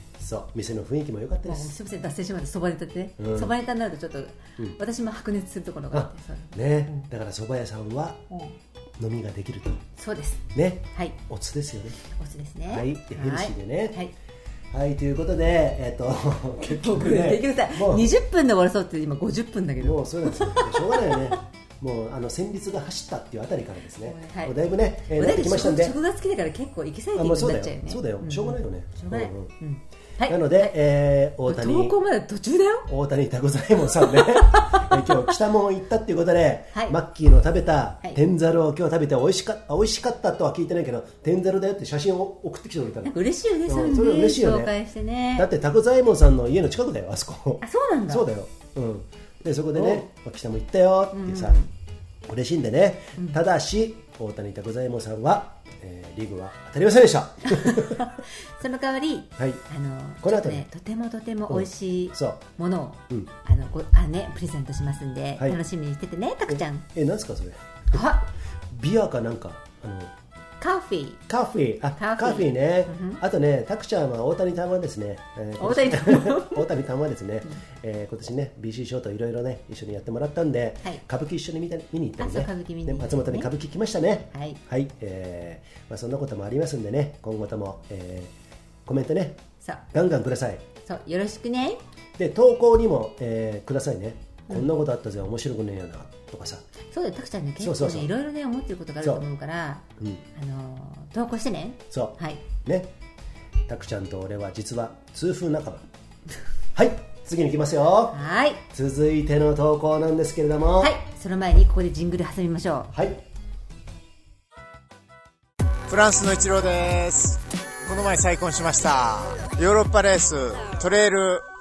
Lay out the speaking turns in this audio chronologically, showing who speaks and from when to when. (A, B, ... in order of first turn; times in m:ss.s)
0:00.2-0:01.8 A
0:01.4-0:07.1 B
0:03.2-0:03.5 A
0:05.9-0:08.2 A
0:09.0-0:09.8 A
0:10.0-0:11.2 B
0:10.5-0:12.0 A
0:12.1-0:14.1 B
0:12.7-0:14.0 A
0:14.7-0:18.1 A
0:16.7-0:21.3 B
0:19.8-0:26.0 A
0:24.0-0:30.8 B
0:27.2-0:29.5 A
0:30.3-0:32.0 A
0:31.4-0:32.9 B
0:32.9-0:44.7 A
0:34.1-0:35.1 B
0:43.0-0:45.5 B
0:45.4-0:51.6 A
0:47.6-0:48.3 B
0:49.8-0:50.0 B
0:51.1-0:51.7 B
0:52.3-0:58.1 A
0:57.4-1:06.9 B
0:59.4-0:59.6 A
1:00.2-1:00.7 A
1:01.5-1:02.4 A
1:06.5-1:08.0 A
1:07.9-1:08.3 B
1:08.7-1:10.1 A
1:10.6-1:11.2 B
1:11.3-1:28.3 A
1:12.0-1:13.2 B
1:15.6-1:16.6 B
1:22.2-1:23.5 B
1:24.3-1:24.6 B
1:28.9-1:29.4 A
1:29.6-1:29.9 B
1:29.9-1:30.7 A
1:30.8-1:31.8 B
1:32.2-1:36.7 A
1:36.9-1:42.4 B
1:37.6-1:38.1 A
1:41.9-1:42.9 A
1:43.7-1:45.9 A
1:46.8-1:48.2 A
1:48.1-1:48.6 B
1:48.7-1:51.0 A
1:50.8-1:52.9 B
1:52.9-1:53.2 A
1:55.9-2:01.5 C